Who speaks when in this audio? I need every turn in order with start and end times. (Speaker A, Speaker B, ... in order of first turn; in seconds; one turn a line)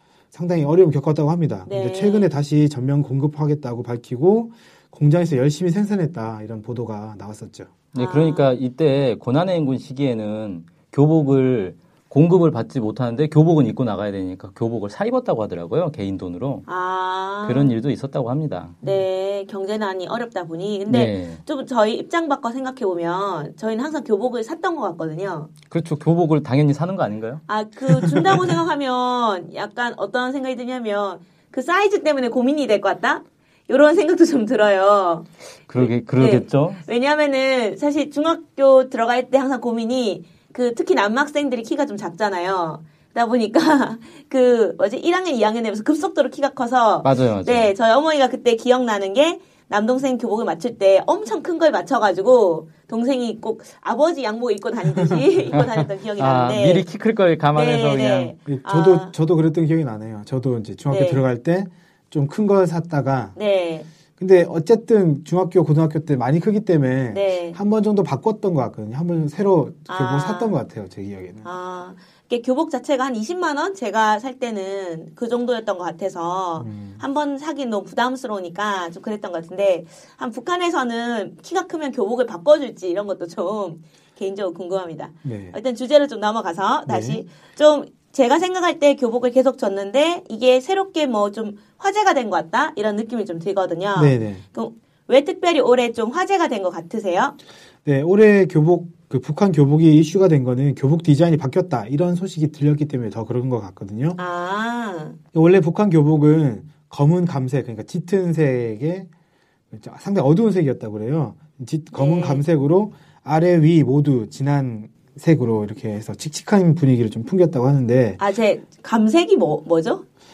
Speaker A: 0.3-7.7
Speaker B: 1.6-2.3
Speaker C: 7.9-16.7
Speaker B: 8.0-8.5
Speaker B: 16.7-17.8
Speaker C: 17.4-18.8
Speaker B: 18.8-25.5
Speaker C: 20.9-21.4
Speaker C: 25.7-27.4
Speaker B: 27.5-56.9
Speaker A: 27.9-28.4
Speaker C: 35.7-36.8
Speaker C: 47.0-47.7
Speaker A: 54.9-55.5
Speaker C: 55.5-58.4
Speaker B: 57.5-59.1
Speaker A: 58.5-63.4
Speaker B: 60.9-61.2
Speaker B: 63.4-63.9
Speaker A: 64.2-71.5
Speaker B: 67.1-67.6
Speaker B: 69.9-70.6
Speaker B: 71.4-97.4
Speaker A: 76.6-77.0
Speaker A: 85.2-85.6
Speaker A: 86.9-87.2
Speaker A: 94.0-94.4
Speaker A: 97.8-104.2
Speaker B: 104.2-105.2
Speaker A: 105.3-109.1
Speaker A: 109.7-118.2
Speaker B: 111.9-112.4
Speaker B: 118.2-120.0